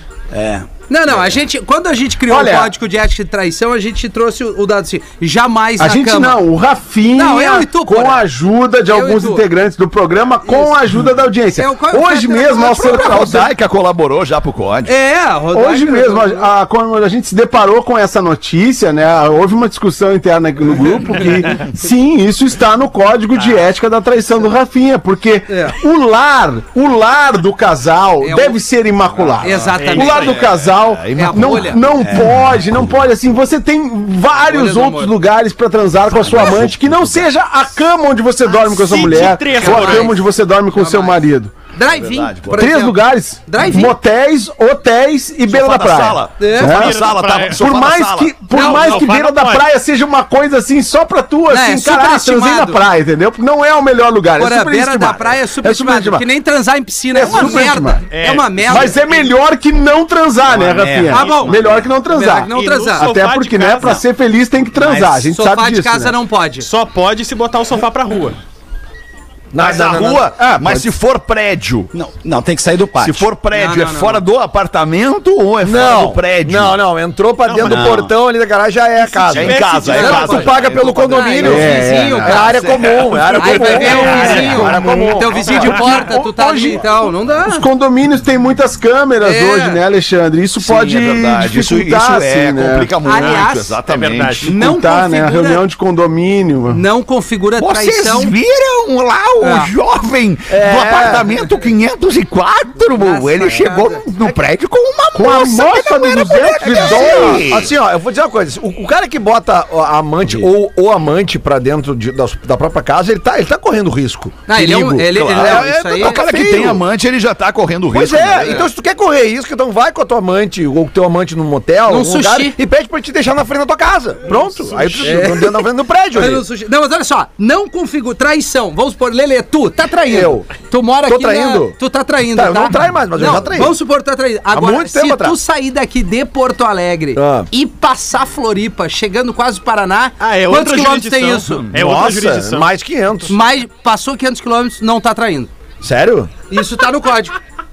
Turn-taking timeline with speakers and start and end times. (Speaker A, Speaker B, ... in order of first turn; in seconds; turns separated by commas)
Speaker A: 0.3-0.7, Speaker B: 0.9-6.4, Speaker C: 2.3-2.7, Speaker C: 5.8-13.5, Speaker B: 7.1-8.2, Speaker B: 8.9-9.4, Speaker B: 10.4-10.8, Speaker B: 11.6-13.3, Speaker D: 12.7-14.9, Speaker B: 14.8-16.5, Speaker C: 15.5-41.5, Speaker B: 25.5-25.8, Speaker B: 28.2-28.6, Speaker D: 29.2-32.2, Speaker B: 29.4-30.5, Speaker E: 29.8-30.3, Speaker B: 31.1-32.0, Speaker A: 32.0-32.3, Speaker B: 34.4-35.1, Speaker D: 36.2-37.2, Speaker B: 38.5-41.2, Speaker E: 38.7-40.2, Speaker B: 41.7-44.0, Speaker D: 41.9-42.7, Speaker C: 42.5-46.9, Speaker D: 45.5-49.0, Speaker B: 46.4-46.8, Speaker E: 46.6-47.6, Speaker C: 47.6-56.3, Speaker E: 48.5-49.7, Speaker B: 48.5-49.1, Speaker B: 51.5-52.8, Speaker B: 54.4-59.3, Speaker C: 57.1-58.0, Speaker E: 57.3-59.0, Speaker C: 58.6-66.2, Speaker A: 60.4-61.6, Speaker B: 61.1-63.1, Speaker E: 61.2-61.8, Speaker E: 62.5-64.0, Speaker A: 64.7-65.3, Speaker B: 65.3-66.7, Speaker E: 66.6-68.4, Speaker F: 69.5-70.9, Speaker D: 69.6-71.9, Speaker A: 71.9-73.3, Speaker D: 73.0-76.8, Speaker B: 73.5-74.2, Speaker F: 75.6-86.7, Speaker D: 77.4-78.0, Speaker A: 77.6-78.1, Speaker D: 79.2-84.5, Speaker E: 79.3-81.4, Speaker B: 80.0-80.5, Speaker B: 81.0-82.6, Speaker C: 81.4-82.3, Speaker B: 83.3-87.7, Speaker E: 83.8-84.8, Speaker E: 85.4-86.0, Speaker C: 85.7-92.9, Speaker B: 89.2-89.8, Speaker D: 90.6-94.5, Speaker B: 93.0-93.8, Speaker E: 93.2-94.5, Speaker B: 94.5-95.7, Speaker C: 94.5-96.8, Speaker B: 96.7-98.4, Speaker D: 97.6-107.7, Speaker B: 99.4-99.7, Speaker F: 100.5-101.3, Speaker B: 102.9-104.0, Speaker C: 105.1-107.5, Speaker F: 106.7-116.8, Speaker B: 114.5-116.3, Speaker D: 115.1-118.6, Speaker F: 117.9-126.4, Speaker B: 121.9-122.6, Speaker E: 124.3-125.2, Speaker B: 125.0-141.7, Speaker F: 130.1-130.5, Speaker F: 131.1-133.8, Speaker F: 134.5-135.3, Speaker F: 137.2-137.5, Speaker E: 140.2-142.7, Speaker F: 141.7-143.3, Speaker B: 143.3-145.5, Speaker F: 145.8-146.3, Speaker B: 146.5-147.3